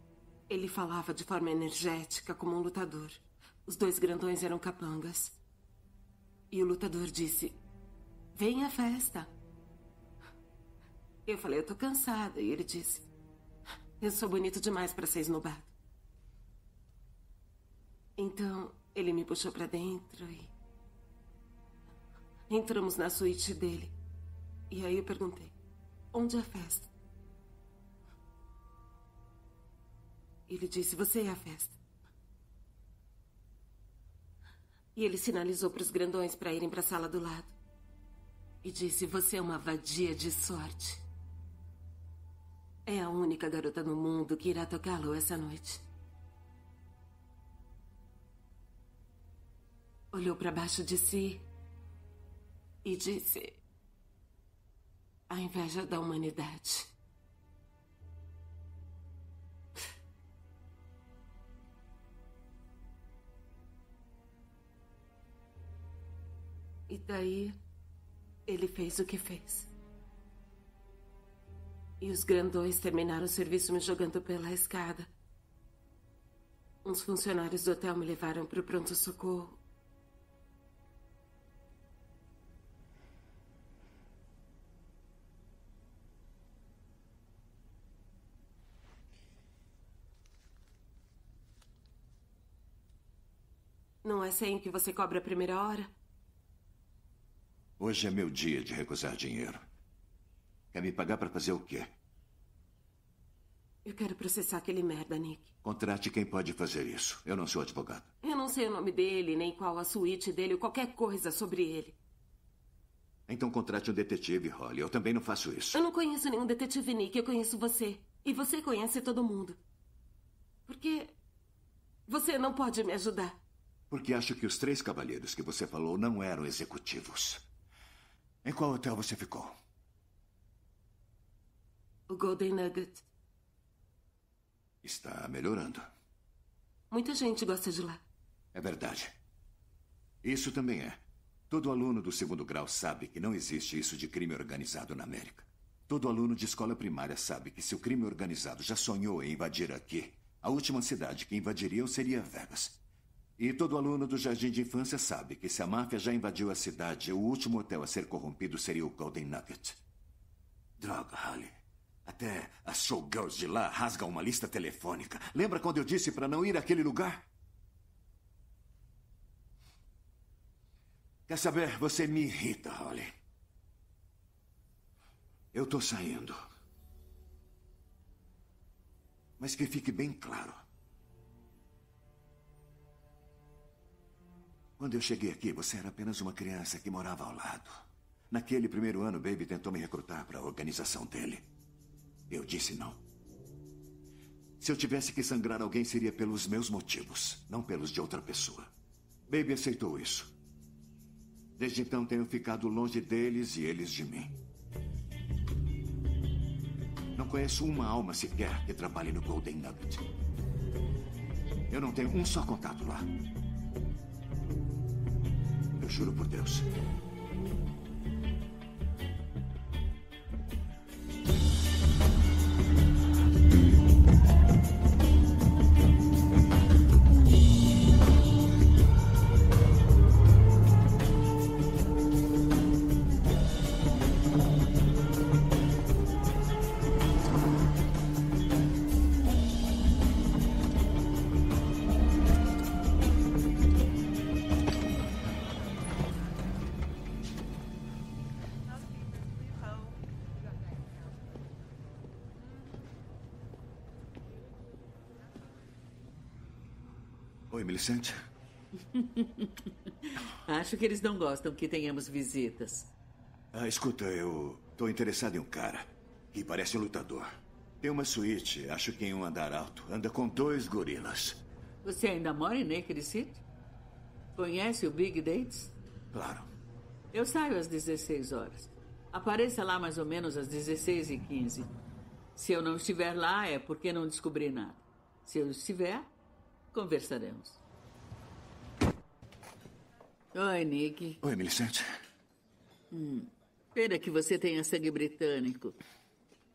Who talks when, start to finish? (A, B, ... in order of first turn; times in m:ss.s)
0:00.5-0:05.4 A
0:06.5-0:07.6 A
0:08.4-0:09.3 A
0:11.3-0:13.1 A
0:14.0-0:15.7 A
0:18.2-0:20.5 A
0:22.5-0:24.0 A
0:24.7-0:25.5 A
0:26.1-0:26.9 A
0:30.5-0:31.8 A
0:35.0-0:37.6 A
0:38.6-0:41.0 A
0:42.9-0:45.8 A
0:50.1-0:51.5 A
0:52.8-0:53.6 A
0:55.3-0:56.9 A
1:06.9-1:07.6 A
1:08.5-1:09.7 A
1:12.0-1:15.1 A
1:16.8-1:19.6 A
1:34.0-1:35.9 A
1:37.8-1:39.6 B
1:40.7-1:41.9 B
1:43.8-1:45.5 A
1:45.6-1:48.1 B
1:48.2-1:52.0 A
1:53.3-1:55.8 B
1:55.7-1:59.6 A
2:00.7-2:01.2 A
2:02.1-2:03.4 A
2:03.9-2:07.5 B
2:08.4-2:09.6 B
2:12.1-2:13.0 A
2:14.8-2:15.9 B
2:16.9-2:18.0 A
2:18.5-2:19.1 B
2:20.2-2:32.8 B
2:33.4-2:39.8 B
2:40.8-2:47.3 B
2:51.3-2:53.1 B
2:55.5-2:56.4 B
2:59.4-3:00.6 B
3:04.8-3:11.4 B
3:12.3-3:13.0 B
3:14.6-3:18.7 B
3:19.3-3:20.3 B
3:21.6-3:24.4 B
3:27.2-3:30.1 B
3:31.7-3:33.1 B
3:35.8-3:36.7 B
4:17.5-4:18.2 B
4:19.0-4:19.5 C
4:20.2-4:22.9 C
4:23.5-4:31.4 B
4:31.8-4:33.4 C
4:34.4-4:35.7 C
4:36.1-4:36.5 B
4:37.1-4:41.7 C
4:42.4-4:46.1 C
4:46.7-4:47.6 C
4:50.3-4:51.2 C
4:51.2-4:52.0 B
4:52.9-4:55.8 C